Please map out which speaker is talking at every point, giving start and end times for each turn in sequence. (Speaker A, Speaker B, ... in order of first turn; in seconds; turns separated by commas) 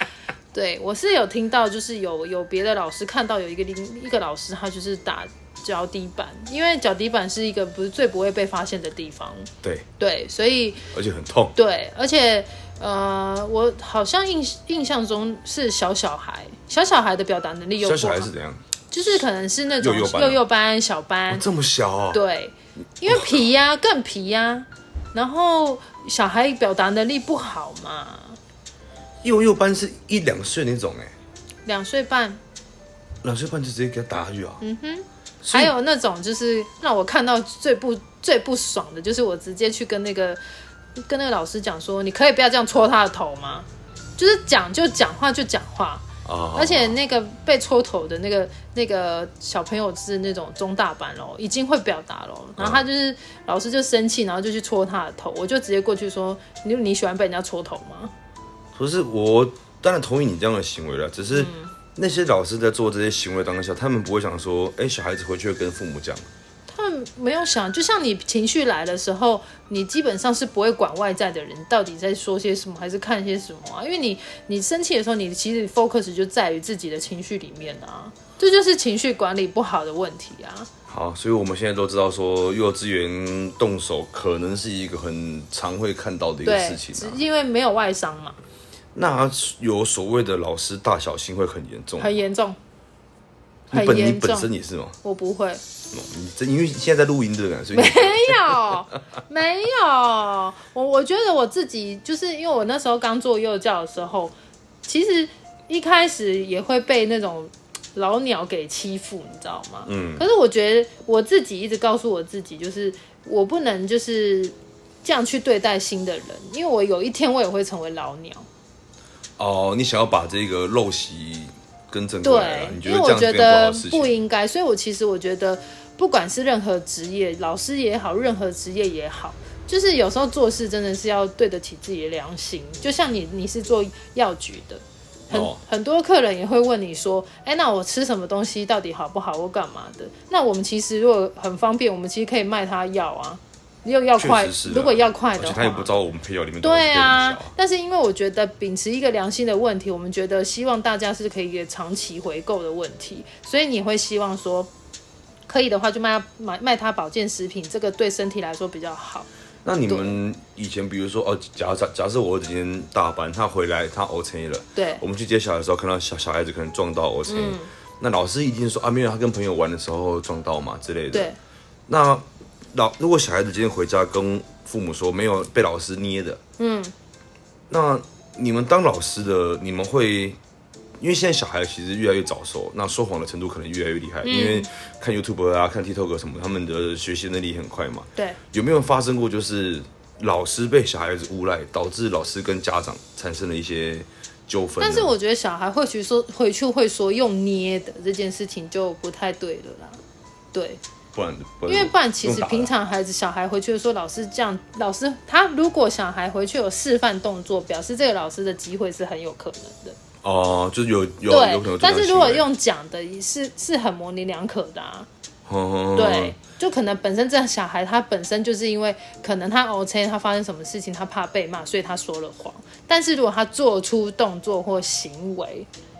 Speaker A: 0.5-10.8, Speaker B: 10.9-11.6, Speaker A: 11.6-18.3, Speaker B: 17.8-18.6, Speaker A: 18.9-21.5, Speaker B: 19.8-20.4, Speaker B: 21.3-22.2, Speaker A: 22.1-28.4, Speaker B: 23.1-23.4, Speaker B: 29.2-31.1, Speaker A: 31.6-32.4, Speaker B: 33.2-34.6, Speaker A: 34.6-40.4, Speaker B: 35.4-35.7, Speaker A: 41.0-58.1, Speaker B: 46.2-47.0, Speaker B: 52.6-52.8, Speaker B: 58.8-66.3, Speaker A: 61.3-61.7, Speaker A: 66.7-80.7, Speaker B: 80.9-87.2, Speaker A: 86.4-88.4, Speaker B: 89.0-92.2, Speaker A: 92.0-92.6, Speaker A: 93.7-94.5, Speaker B: 93.7-95.0, Speaker A: 95.0-95.6, Speaker B: 95.9-98.8, Speaker A: 97.7-118.5, Speaker B: 109.9-110.2, Speaker B: 119.4-124.1, Speaker A: 122.2-145.9, Speaker B: 135.3-135.6, Speaker B: 144.2-147.5, Speaker A: 146.6-154.7, Speaker A: 155.5-159.3, Speaker B: 159.7-171.3, Speaker A: 159.9-160.2, Speaker A: 164.8-165.0, Speaker A: 167.3-167.7, Speaker A: 171.1-171.4, Speaker B: 171.9-176.4, Speaker A: 176.6-176.9, Speaker B: 177.7-180.4, Speaker B: 181.0-195.1, Speaker A: 184.2-184.7, Speaker A: 194.8-200.0, Speaker A: 200.5-200.8, Speaker B: 201.1-202.7, Speaker A: 201.7-210.0, Speaker B: 210.2-212.4, Speaker A: 211.3-215.1, Speaker B: 215.5-216.4, Speaker A: 216.0-225.7